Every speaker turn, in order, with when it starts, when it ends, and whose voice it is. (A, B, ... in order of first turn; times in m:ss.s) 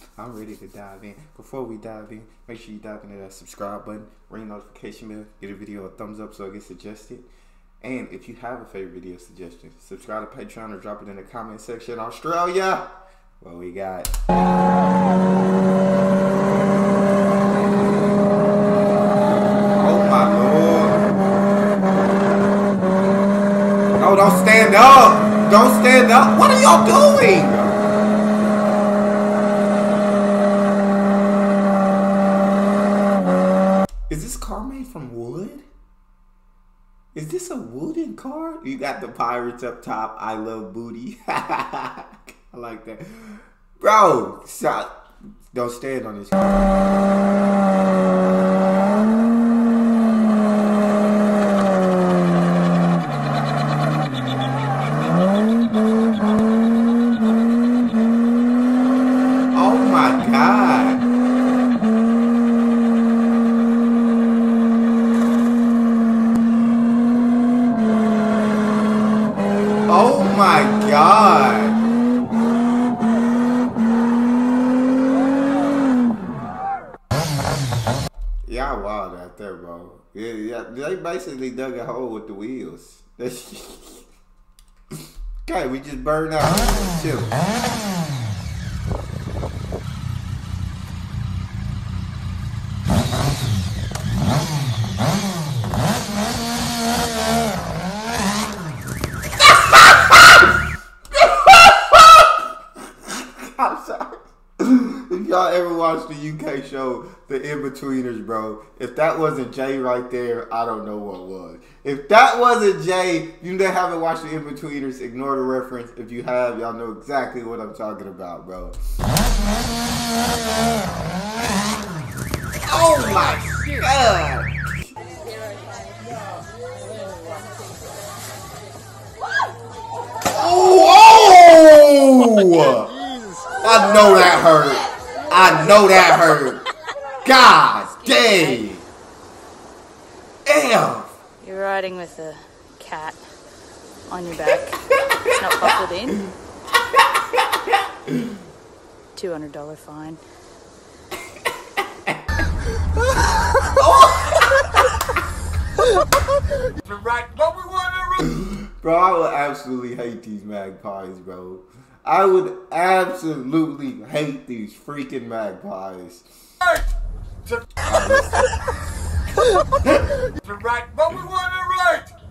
0:00.2-0:07.3 A
0:07.8-0:12.9 A
0:13.4-0:14.1 A
0:19.7-0:21.1 A
0:24.0-0:27.8 A
0:34.1-0:35.6 A
0:37.2-0:44.9 A
0:45.5-0:46.6 A
0:59.5-1:01.0 A
1:09.9-1:11.8 A
1:18.5-1:24.0 A
1:25.4-1:27.4 A
1:39.7-1:40.5 A
1:41.1-1:58.8 A
2:02.6-2:04.5 A
2:10.3-2:12.9 A
2:13.6-2:16.6 A
2:17.2-2:18.8 A
2:20.5-2:21.1 A
2:21.4-2:23.2 B
2:24.1-2:24.8 B
2:25.0-2:25.8 A
2:25.4-2:26.2 B
2:27.0-2:28.1 A
2:29.2-2:30.2 B
2:31.8-2:32.2 A
2:33.8-2:34.6 A
2:36.8-2:38.4 C
2:38.3-2:46.3 A
2:47.5-2:47.8 C
2:47.8-2:48.5 A
2:50.1-2:52.1 C